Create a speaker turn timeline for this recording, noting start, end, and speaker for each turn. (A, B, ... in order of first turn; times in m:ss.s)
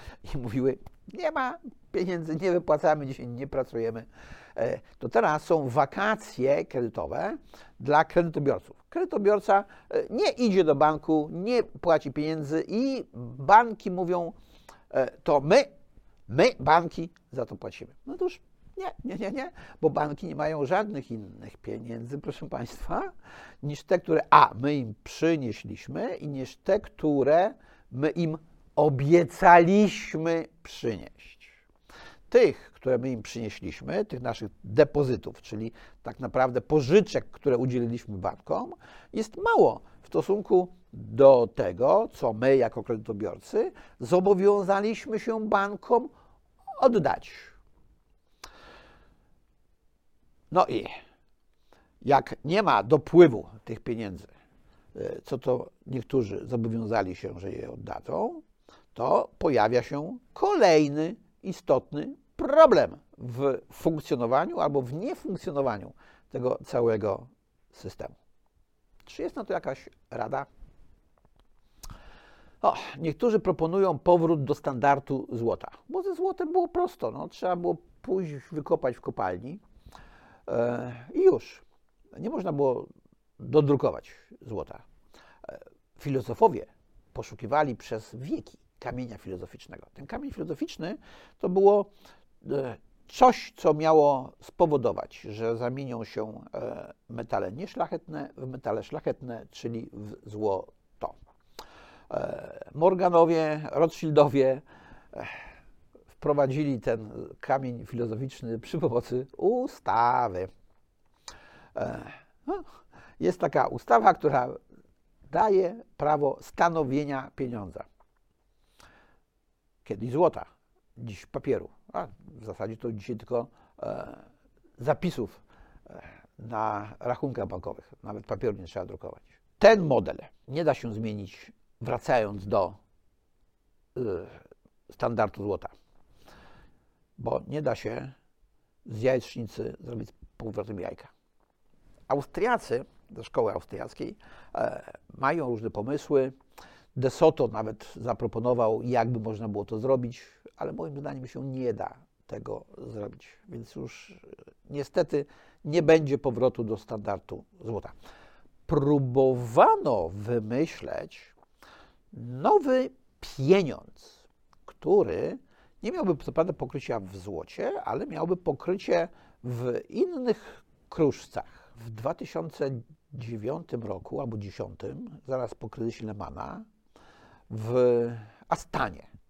0:00.2-0:14.4 A
0:14.9-0:15.7 A
0:16.3-0:23.1 A
0:23.6-0:31.6 A
0:32.3-0:46.1 A
0:46.8-0:47.6 A
0:50.5-0:50.9 A
0:52.0-0:54.3 A
0:55.0-0:58.4 A
0:58.9-1:08.2 A
1:09.1-1:10.5 A
1:12.6-1:19.6 A
1:20.5-1:21.6 A
1:22.2-1:24.8 A
1:25.4-1:31.9 A
1:32.4-1:41.2 A
1:42.1-1:45.5 A
1:46.2-1:50.5 A
1:51.8-1:54.6 A
1:55.3-1:57.9 A
1:59.8-2:04.2 A
2:04.8-2:12.8 A
2:14.0-2:15.7 A
2:17.2-2:18.2 A
2:18.9-2:21.1 A
2:22.1-2:26.4 A
2:27.0-2:38.0 A
2:38.7-2:41.3 A
2:42.1-2:56.7 A
2:57.5-2:59.1 A